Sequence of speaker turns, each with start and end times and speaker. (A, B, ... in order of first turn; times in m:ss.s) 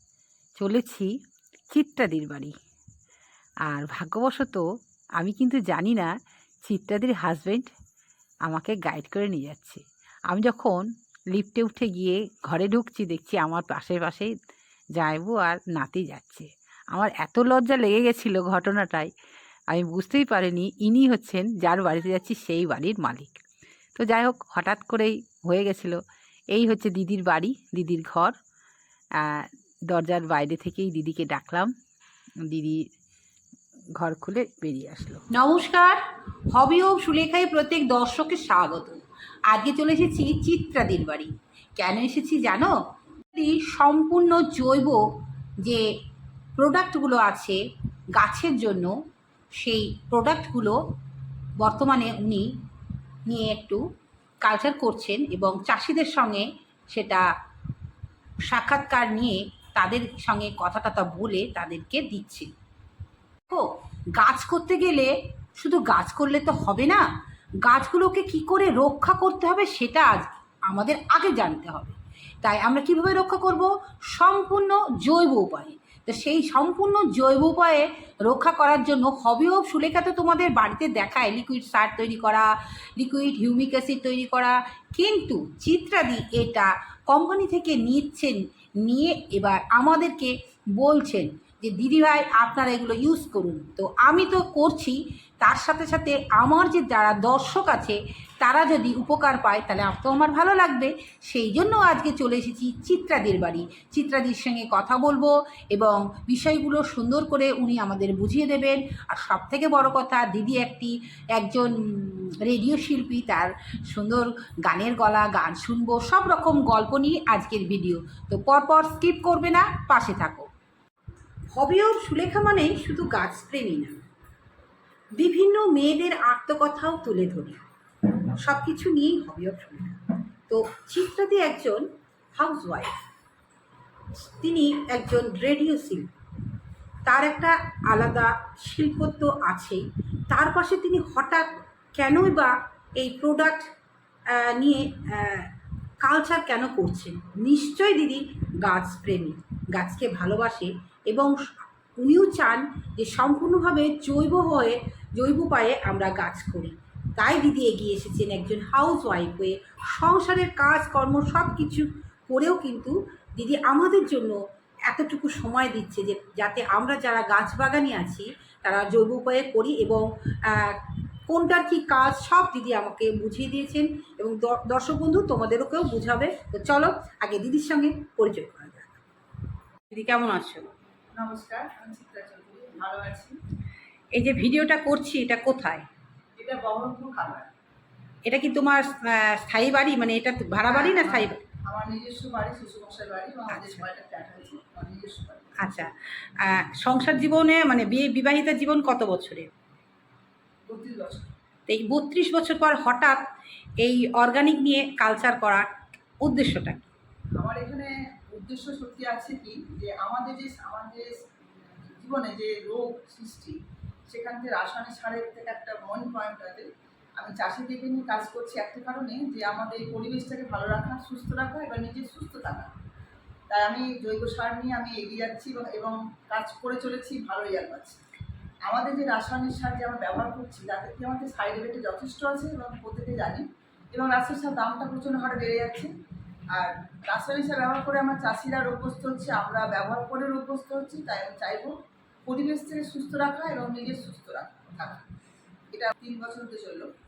0:00.6-0:01.1 A
0:01.7-0:02.5 A
0:03.7-0:04.6 A
0:05.2-0:06.1 A
0:06.6-0:07.7 A
0:08.5-0:14.3 A
0:15.0-0:19.1 A
0:19.7-0:23.4 A
0:24.0-0:26.0 A
0:26.5-0:28.4 A
0:29.2-0:31.7 A
0:32.4-0:32.9 A
0:34.0-0:36.0 A
0:36.5-0:42.8 A
0:43.3-0:45.0 A
0:46.6-0:47.6 A
0:48.2-0:49.0 A
0:49.6-0:50.8 A
0:51.6-0:52.5 A
0:53.3-0:53.8 A
0:54.4-0:57.2 A
0:58.5-1:02.5 A
1:03.5-1:07.0 A
1:07.6-2:00.5 A
2:01.5-2:04.0 A
2:05.2-2:07.6 A
2:08.4-2:11.8 A
2:12.4-2:12.9 A
2:14.2-2:16.1 A
2:17.0-2:23.7 A
2:24.3-2:31.4 A
2:32.0-2:59.0 A
2:59.9-3:00.7 A
3:01.1-3:03.4 B
3:04.1-3:05.8 A
3:06.4-3:07.5 B
3:08.2-3:11.4 A
3:10.7-3:15.5 B
3:13.5-3:13.8 A
3:15.6-3:19.5 A
3:20.7-3:21.3 B
3:21.7-3:23.2 A
3:23.8-3:25.7 A
3:26.2-3:26.9 A
3:27.4-3:33.6 B
3:34.1-3:42.7 B
3:43.5-3:48.0 B
3:48.6-3:55.9 B
3:56.5-4:01.8 B
4:02.3-4:05.0 B
4:05.7-4:06.9 B